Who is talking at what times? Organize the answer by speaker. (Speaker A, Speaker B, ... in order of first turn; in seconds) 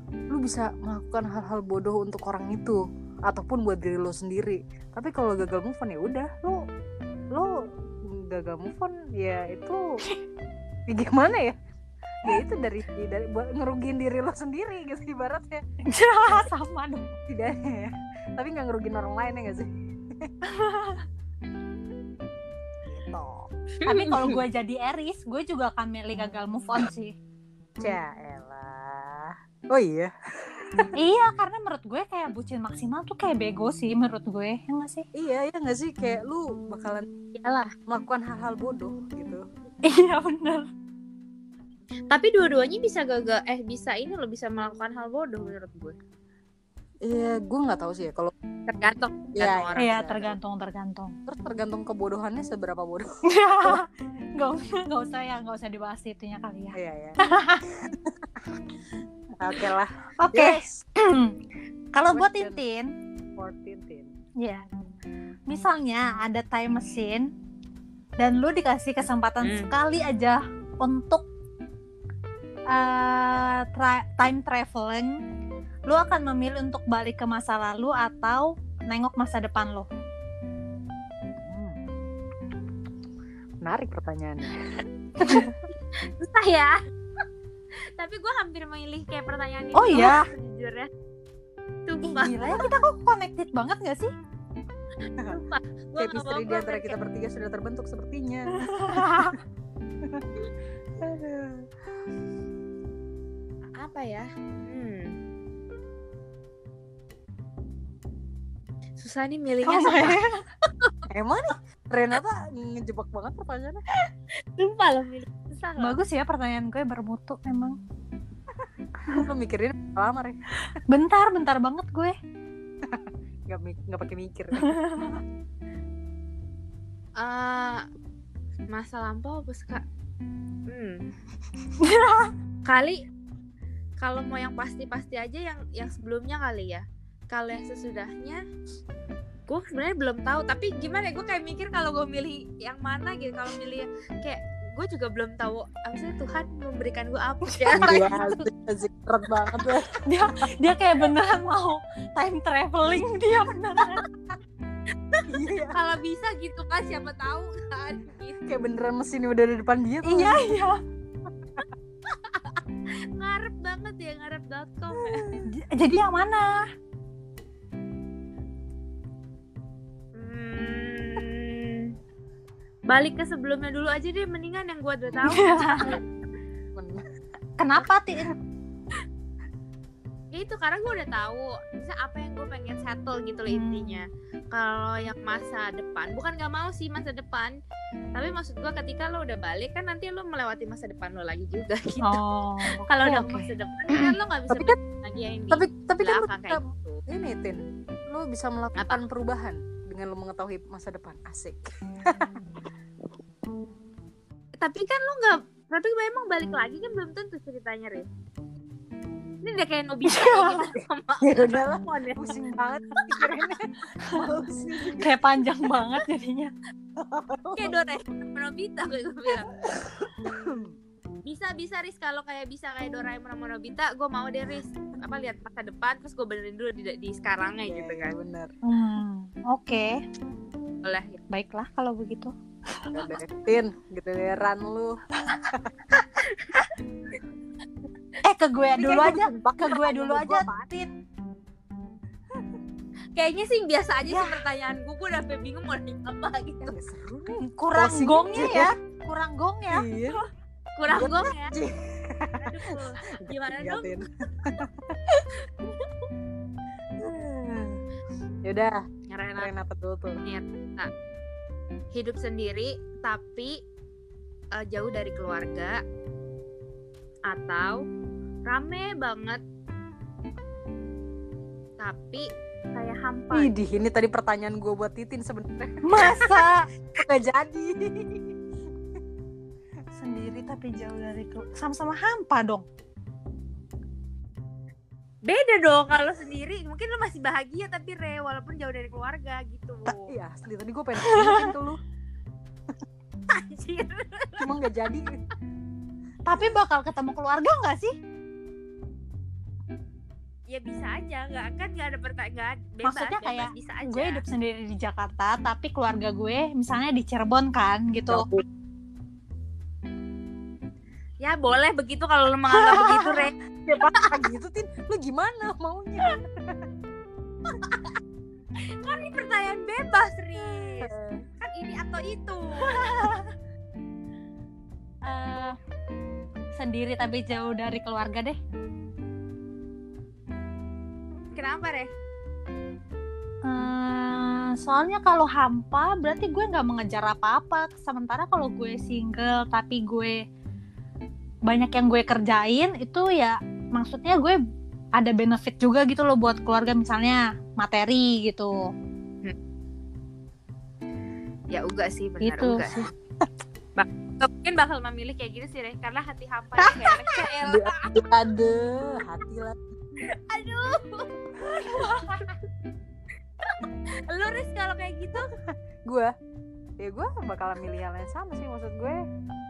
Speaker A: 0.3-6.7, 8.1-9.8, 10.9-11.6, 12.2-15.6, 17.3-19.7, 22.8-23.5, 27.8-30.9, 35.1-37.1, 37.9-39.4, 47.0-48.3, 49.3-50.4, 51.3-53.1, 56.8-57.2, 59.4-60.8, 62.1-62.6, 63.4-64.1, 81.4-81.8, 83.6-85.4, 96.0-99.3, 101.0-101.7, 111.1-113.8, 119.1-120.4, 122.9-124.7, 147.8-149.9, 155.3-155.8, 158.5-160.4, 164.9-165.5, 176.8-177.0, 194.5-194.8, 195.5-202.3, 211.2-215.2, 217.0-217.7, 219.7-220.8, 227.6-228.5, 232.9-235.0, 238.8-240.5, 246.6-248.7, 249.7-250.2, 250.9-254.7, 257.0-257.8, 258.4-258.8, 259.4-260.2, 273.3-276.2, 277.0-278.3, 289.9-291.8, 294.4-295.2, 308.1-308.4, 312.7-316.6, 320.8-321.2, 357.5-359.6, 366.8-369.0
Speaker B: 15.9-17.1, 20.5-21.0, 23.9-27.1, 31.0-35.0, 39.9-40.7, 49.8-51.1, 53.3-53.9, 54.4-57.6, 60.2-61.3, 61.9-62.9, 65.5-67.3, 68.2-71.3, 72.7-75.2, 75.9-79.9, 85.2-85.5, 89.7-90.3, 92.0-94.1, 98.7-99.3, 109.7-110.4, 115.8-117.8, 120.9-122.1, 124.6-125.2, 131.8-132.3, 147.5-148.4, 150.1-154.0, 160.1-160.8, 165.6-166.5, 175.2-175.9, 177.6-178.3, 183.5-184.1, 192.0-194.1, 210.1-210.7, 215.0-216.5, 228.6-230.0, 231.3-233.1, 238.2-240.9, 244.1-244.4, 247.4-249.9, 275.8-276.7, 279.9-282.6, 291.1-291.5, 296.3-297.9, 302.8-308.2, 322.7-323.3, 325.1-325.6, 326.6-328.4, 333.5-340.2, 341.5-344.4, 345.0-348.7, 352.2-352.9, 361.5-362.3
Speaker C: 23.8-24.4, 37.4-37.7, 42.1-46.0, 48.7-50.0, 69.4-69.7, 85.2-86.8, 88.0-90.9, 91.9-92.7, 95.2-97.0, 103.8-105.2, 109.0-110.2, 114.6-116.0, 127.2-127.8, 128.7-129.8, 130.7-131.0, 132.7-133.0, 134.0-138.4, 139.5-148.3, 155.1-158.4, 162.1-162.6, 163.2-165.2, 170.2-171.9, 172.9-176.0, 180.3-187.5, 188.2-197.0, 198.8-199.0, 204.6-208.1, 209.4-212.2, 217.6-219.5, 221.3-228.2, 230.8-231.2, 236.2-236.7, 243.2-246.7, 250.8-251.5, 252.4-254.0, 259.1-259.5, 260.2-260.9, 261.9-263.5, 264.6-265.8, 267.3-267.8, 268.5-269.4, 271.8-273.6, 285.3-290.1, 293.3-294.5, 300.5-304.2, 311.2-314.2, 318.8-322.9, 331.4-331.9, 351.5-352.9, 353.8-357.9, 360.2-361.1, 361.7-362.1, 363.4-365.3